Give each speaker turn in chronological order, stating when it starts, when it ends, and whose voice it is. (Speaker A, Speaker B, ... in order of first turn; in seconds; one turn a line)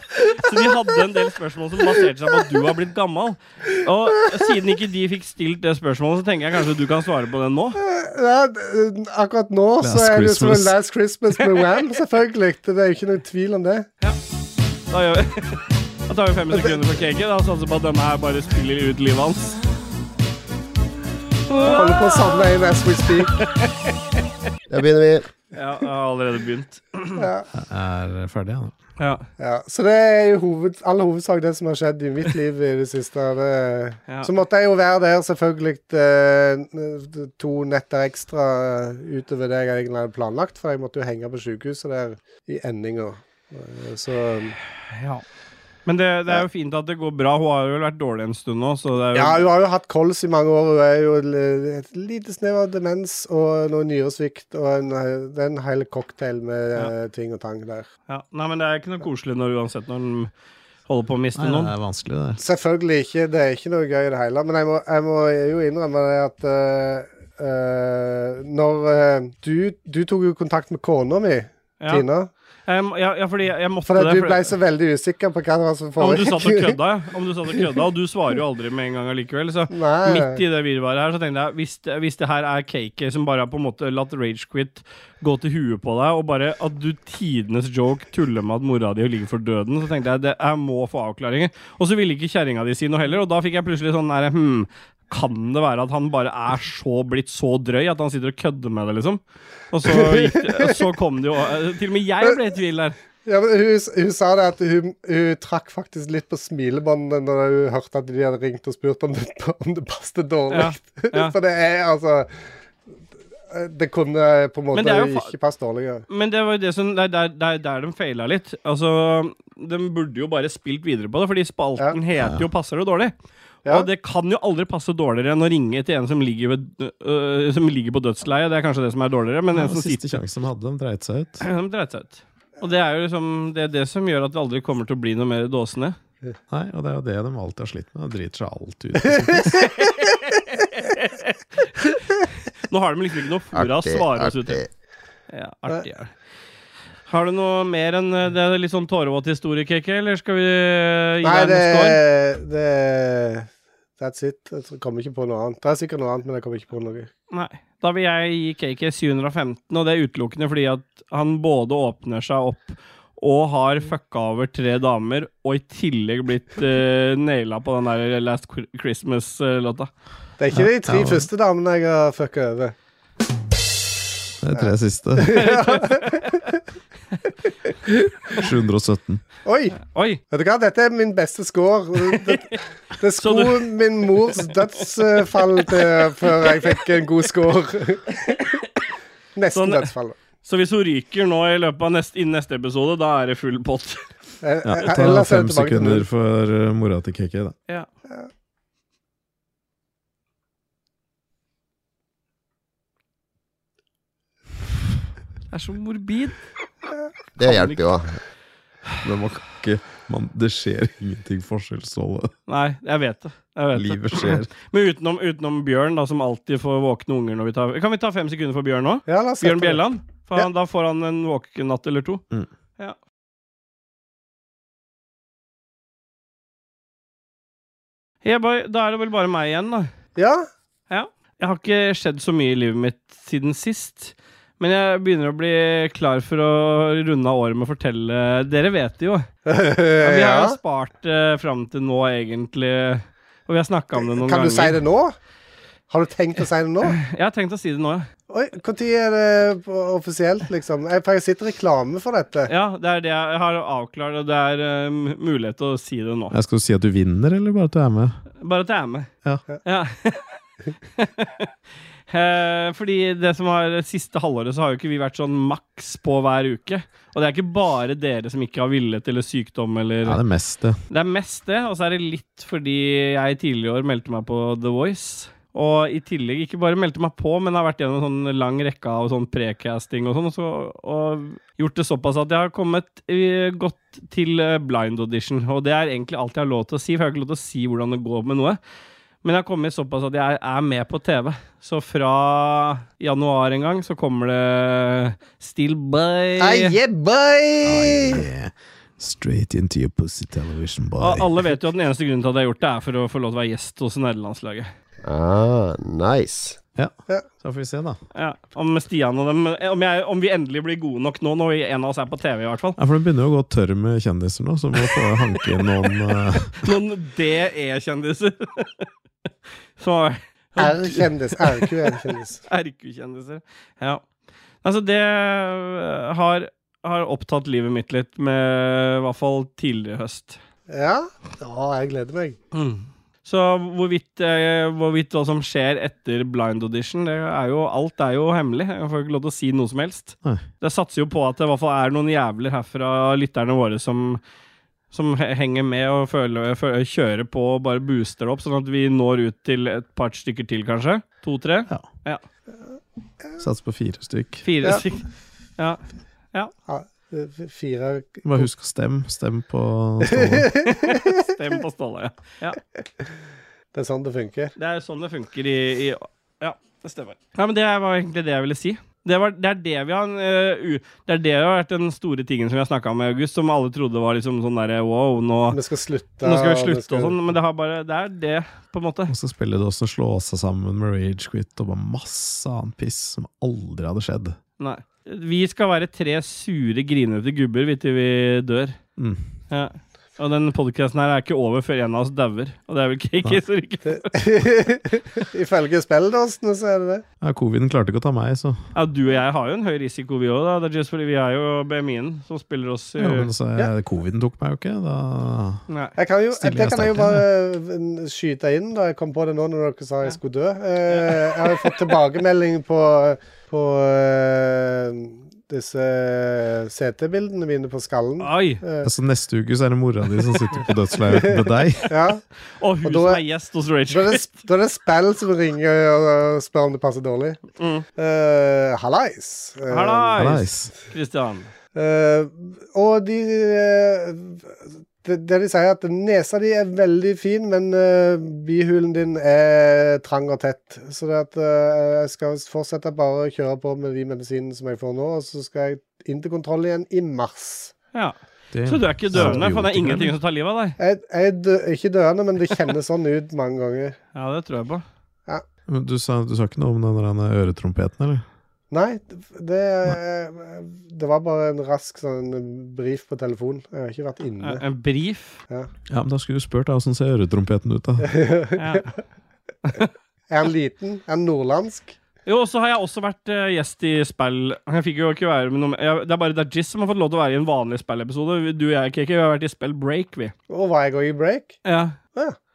Speaker A: 0.3-7.8
Speaker B: 7.8-13.9
Speaker C: 9.8-10.8
Speaker A: 14.9-19.6
Speaker B: 16.5-16.9
Speaker A: 21.5-22.5
Speaker B: 21.6-23.4
Speaker D: 24.7-25.3
Speaker A: 25.5-27.2
Speaker B: 27.2-27.5
Speaker C: 27.5-28.7
Speaker A: 29.0-29.2
Speaker B: 29.4-44.6
Speaker A: 45.0-45.2
Speaker A: 45.9-49.5
Speaker B: 49.1-57.9
Speaker A: 58.1-60.3
Speaker A: 60.9-61.7
Speaker C: 61.4-62.4
Speaker B: 62.4-72.3
Speaker A: 72.7-74.5
Speaker B: 73.9-76.8
Speaker A: 76.0-99.2
Speaker B: 79.7-80.4
Speaker A: 99.7-103.0
Speaker B: 99.9-100.7
Speaker B: 103.2-112.3
Speaker A: 110.5-111.3
Speaker B: 113.5-116.1
Speaker A: 114.7-115.3
Speaker A: 116.1-123.1
Speaker C: 122.2-122.4
Speaker A: 123.7-130.2
Speaker C: 129.5-131.4
Speaker A: 131.4-136.0
Speaker C: 136.5-139.6
Speaker A: 140.6-141.3
Speaker A: 142.7-144.6
Speaker D: 143.5-144.7
Speaker A: 145.3-146.1
Speaker A: 147.1-152.0
Speaker B: 151.2-157.1
Speaker A: 157.3-169.9
Speaker B: 170.4-172.7
Speaker C: 170.5-171.3
Speaker C: 174.4-175.4
Speaker B: 174.6-176.4
Speaker A: 175.4-176.3
Speaker B: 177.9-178.3
Speaker C: 178.3-179.2
Speaker B: 179.4-179.8
Speaker A: 179.8-180.2
Speaker B: 180.3-188.6
Speaker A: 182.1-182.4
Speaker A: 183.2-183.7
Speaker B: 189.4-190.2
Speaker A: 189.5-189.9
Speaker A: 190.4-194.0
Speaker B: 194.4-196.1
Speaker C: 194.7-197.6
Speaker A: 205.5-206.4
Speaker D: 207.4-208.2
Speaker A: 207.4-207.8
Speaker C: 209.0-212.3
Speaker A: 212.5-222.2
Speaker C: 213.7-214.5
Speaker B: 219.1-219.8
Speaker A: 228.2-229.9
Speaker B: 230.2-230.5
Speaker A: 230.9-239.3
Speaker B: 239.5-240.6
Speaker A: 240.0-244.8
Speaker B: 244.0-245.2
Speaker B: 245.9-247.0
Speaker A: 247.0-248.1
Speaker B: 248.3-252.5
Speaker A: 252.5-256.3
Speaker C: 256.3-258.2
Speaker A: 258.4-259.1
Speaker A: 259.6-260.4
Speaker A: 261.0-261.5
Speaker A: 262.1-270.2
Speaker C: 270.0-270.8
Speaker A: 270.9-288.6
Speaker A: 289.2-296.8
Speaker B: 296.4-298.2
Speaker C: 297.6-301.3
Speaker A: 301.0-304.7
Speaker D: 305.0-306.6
Speaker C: 306.8-308.0
Speaker A: 308.1-312.8
Speaker C: 312.8-316.6
Speaker A: 316.6-318.9
Speaker A: 319.8-321.9
Speaker B: 320.6-322.4
Speaker A: 322.5-324.0
Speaker A: 324.6-330.4
Speaker B: 330.7-332.4
Speaker A: 332.5-344.2
Speaker A: 344.9-352.2
Speaker C: 353.4-354.4
Speaker A: 354.4-355.0
Speaker B: 356.7-358.5
Speaker C: 358.2-360.5
Speaker B: 360.1-361.0
Speaker A: 360.6-362.6
Speaker B: 363.7-364.5
Speaker A: 364.6-375.6
Speaker B: 375.5-377.2
Speaker A: 376.2-379.1
Speaker C: 379.1-384.4
Speaker A: 384.6-388.8
Speaker C: 389.0-389.2
Speaker A: 389.5-394.2
Speaker B: 393.9-397.0
Speaker C: 397.2-398.6
Speaker A: 398.8-403.3
Speaker C: 403.0-405.6
Speaker A: 405.7-405.9
Speaker B: 406.0-418.9
Speaker C: 406.3-407.2
Speaker A: 410.9-411.3
Speaker A: 418.2-418.6
Speaker C: 418.8-421.9
Speaker B: 421.9-422.2
Speaker A: 422.6-424.3
Speaker B: 422.8-423.2
Speaker B: 423.9-427.4
Speaker A: 427.6-427.9
Speaker B: 428.0-430.1
Speaker A: 429.7-431.5
Speaker C: 430.2-430.7
Speaker B: 431.8-447.7
Speaker A: 447.9-450.8
Speaker C: 448.5-450.2
Speaker B: 449.1-449.4
Speaker B: 450.8-454.0
Speaker A: 454.1-454.8
Speaker C: 455.7-458.2
Speaker B: 458.7-464.6
Speaker A: 464.4-465.4
Speaker C: 465.9-468.1
Speaker B: 468.0-468.9
Speaker A: 468.6-468.9
Speaker B: 470.3-472.0
Speaker A: 472.3-480.3
Speaker B: 480.5-481.6
Speaker A: 481.6-482.0